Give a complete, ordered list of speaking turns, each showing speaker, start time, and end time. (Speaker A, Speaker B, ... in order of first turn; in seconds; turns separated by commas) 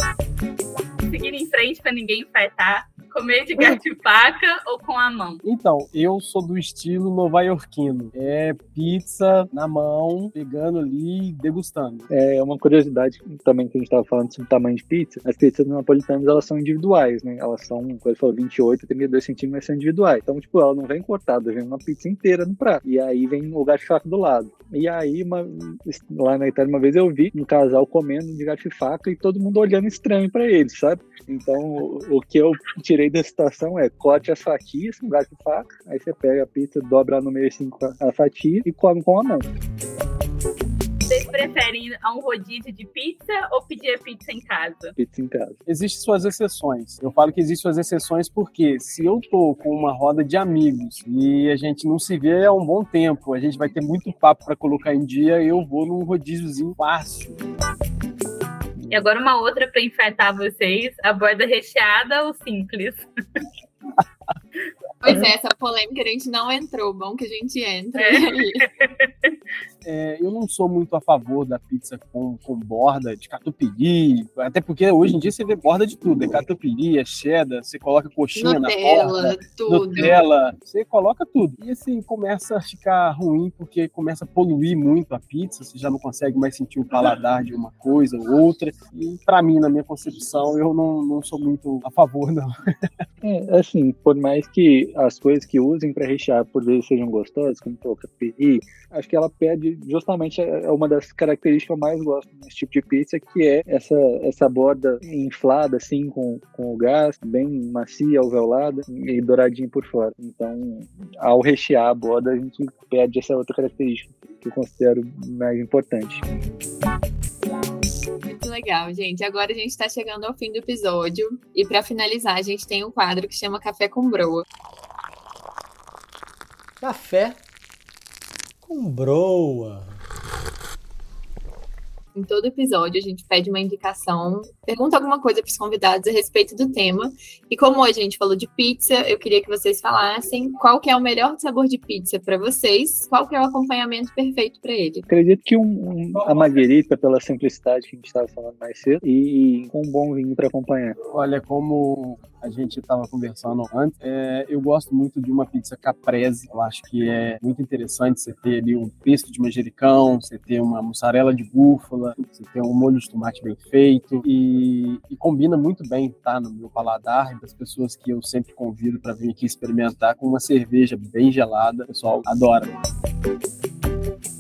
Speaker A: 1.1-5.4, Speaker B: 5.5-12.1, Speaker C: 12.1-39.5, Speaker A: 41.1-45.0, Speaker C: 45.0-45.6, Speaker B: 45.7-57.4, Speaker C: 58.8-59.1, Speaker A: 58.9-63.0, Speaker D: 65.0-68.7, Speaker A: 68.0-69.3, Speaker B: 69.8-92.5, Speaker D: 78.3-80.2, Speaker C: 93.2-116.2, Speaker D: 118.3-124.5, Speaker E: 126.8-127.4, Speaker E: 128.6-130.0, Speaker D: 132.2-145.1, Speaker C: 145.1-151.0, Speaker B: 151.1-172.7